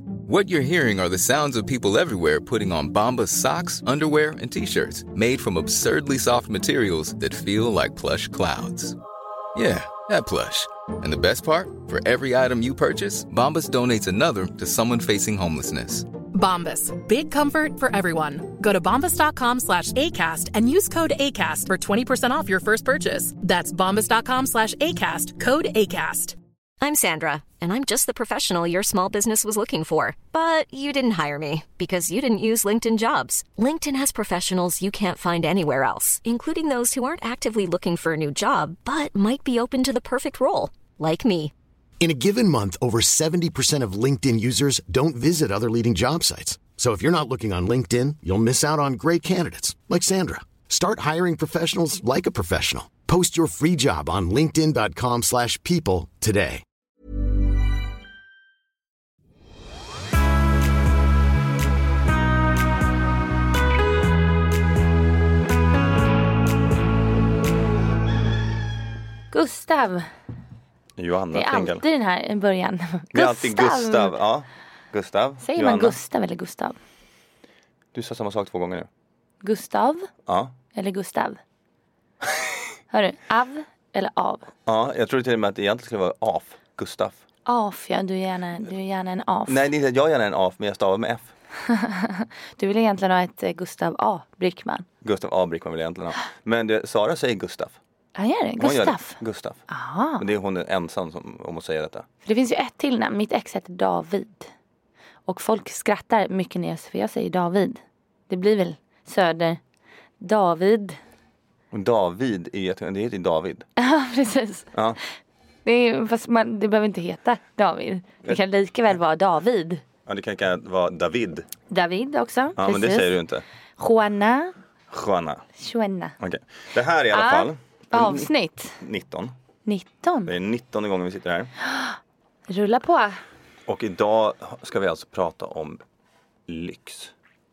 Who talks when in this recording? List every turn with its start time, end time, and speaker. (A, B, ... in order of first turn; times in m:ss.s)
0:00.3-0:09.0 A
0:09.6-0:16.1 A
0:16.3-0:26.4 B
0:26.8-0:41.5 C
0:42.0-0:56.6 D
1:09.3-1:10.1 E
1:11.0-1:11.8 F
1:11.3-1:14.2 E
1:13.1-1:16.0 F
1:15.4-1:16.8 E
1:17.9-1:18.9 F
1:19.4-1:20.1 E
1:20.3-1:20.5 F
1:20.7-1:21.4 E
1:22.9-1:24.5 E
1:24.7-1:27.2 F
1:27.5-1:29.6 E
1:29.5-1:31.3 F
1:31.6-1:34.8 E
1:35.0-1:37.8 F
1:38.2-1:40.2 E
1:38.6-1:39.6 F
1:40.2-1:42.1 F
1:42.2-1:44.5 E
1:45.3-1:49.6 E
1:50.2-1:51.0 E
1:51.7-1:53.7 F
1:53.8-1:54.7 E
1:54.7-1:55.0 F
1:55.6-1:59.8 E
2:00.1-2:01.5 F
2:01.7-2:03.2 E
2:02.6-2:03.4 F
2:03.8-2:04.5 E
2:04.9-2:05.4 F
2:05.6-2:06.2 E
2:06.2-2:09.3 F
2:07.1-2:08.8 E
2:09.7-2:10.3 E
2:10.3-2:11.5 F
2:11.6-2:12.0 E
2:12.5-2:13.2 E
2:13.7-2:15.8 F
2:16.5-2:17.1 F